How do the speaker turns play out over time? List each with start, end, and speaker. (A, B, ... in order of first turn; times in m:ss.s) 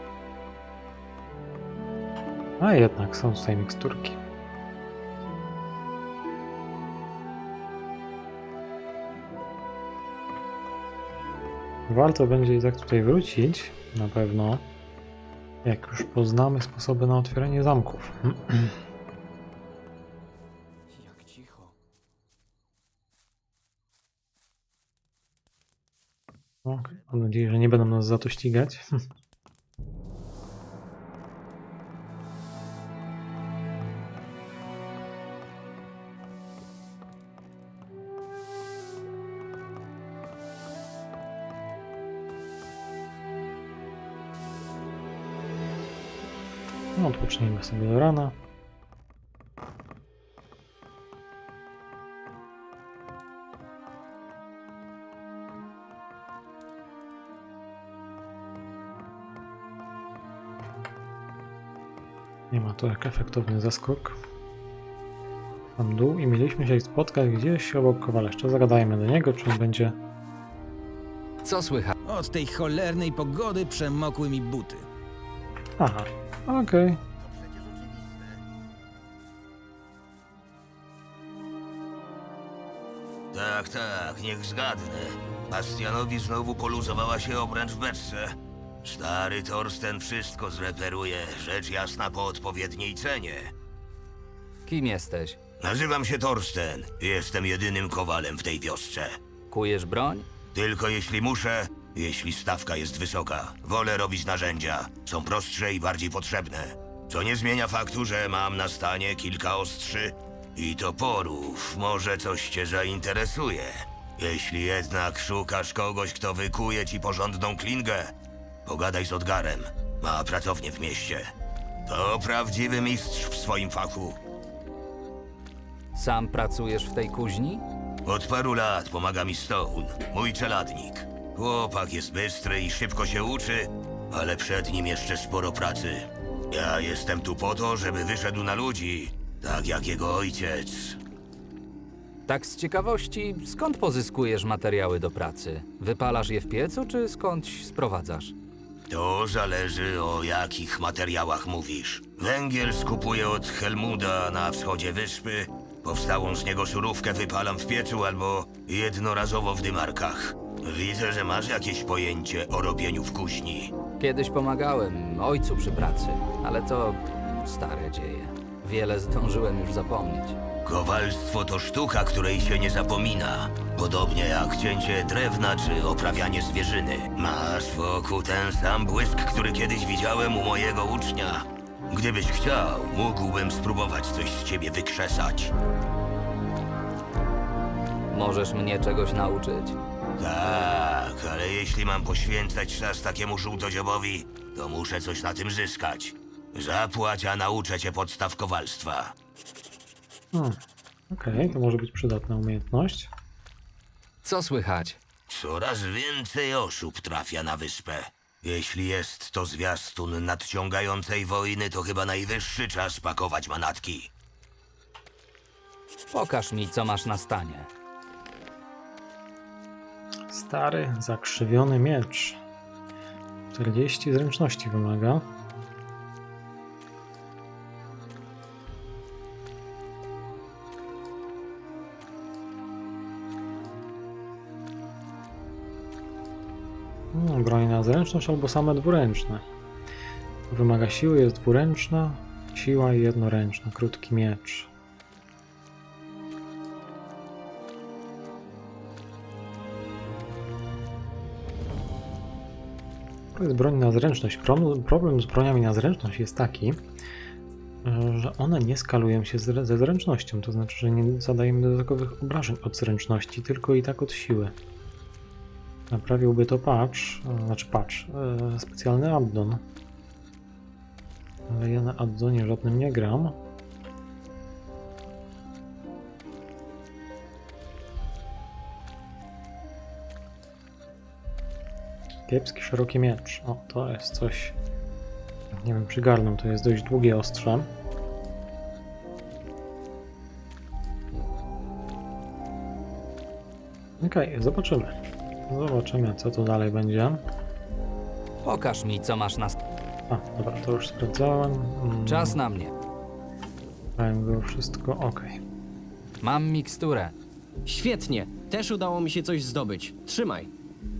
0:02.6-0:04.2 A
0:11.9-0:14.7 A
0:15.6-0:18.8 A
0:26.6-0:28.9 A
0:47.0-0:48.4 A
1:02.5-1:04.2 A
1:05.8-1:10.0 A
1:11.4-1:12.0 B
1:12.0-1:14.9 C
1:15.8-1:17.0 A
1:17.2-1:18.4 D
1:23.3-1:33.5 D
1:34.7-1:35.4 B
1:35.6-1:39.2 D
1:39.5-1:40.3 B
1:40.5-1:58.1 D
1:58.7-2:01.3 D
2:01.9-2:04.2 D
2:05.9-2:07.6 B
2:08.1-2:21.0 D
2:22.3-2:28.4 B
2:28.9-2:43.7 D
2:44.0-2:50.4 B
2:50.6-3:05.5 D
3:08.1-3:09.8 B
3:10.2-3:19.1 D
3:20.3-3:20.6 A
3:21.1-3:23.1 A
3:24.2-3:25.0 B
3:25.3-3:34.1 D
3:36.1-3:37.7 B
3:40.3-3:42.4 A
3:43.5-3:45.2 A
3:57.1-3:59.4 A
4:00.5-4:04.7 A
4:13.4-4:16.8 A
4:17.8-4:24.6 A
4:25.9-4:29.6 A
4:31.5-4:33.4 A
4:42.3-4:44.6 A
4:45.5-4:47.7 A
4:54.0-4:57.2 A
4:58.4-4:59.6 B
5:00.1-5:02.4 A
5:02.1-5:02.7 B
5:04.0-5:05.4 A
5:06.2-5:07.2 B
5:07.7-5:10.5 E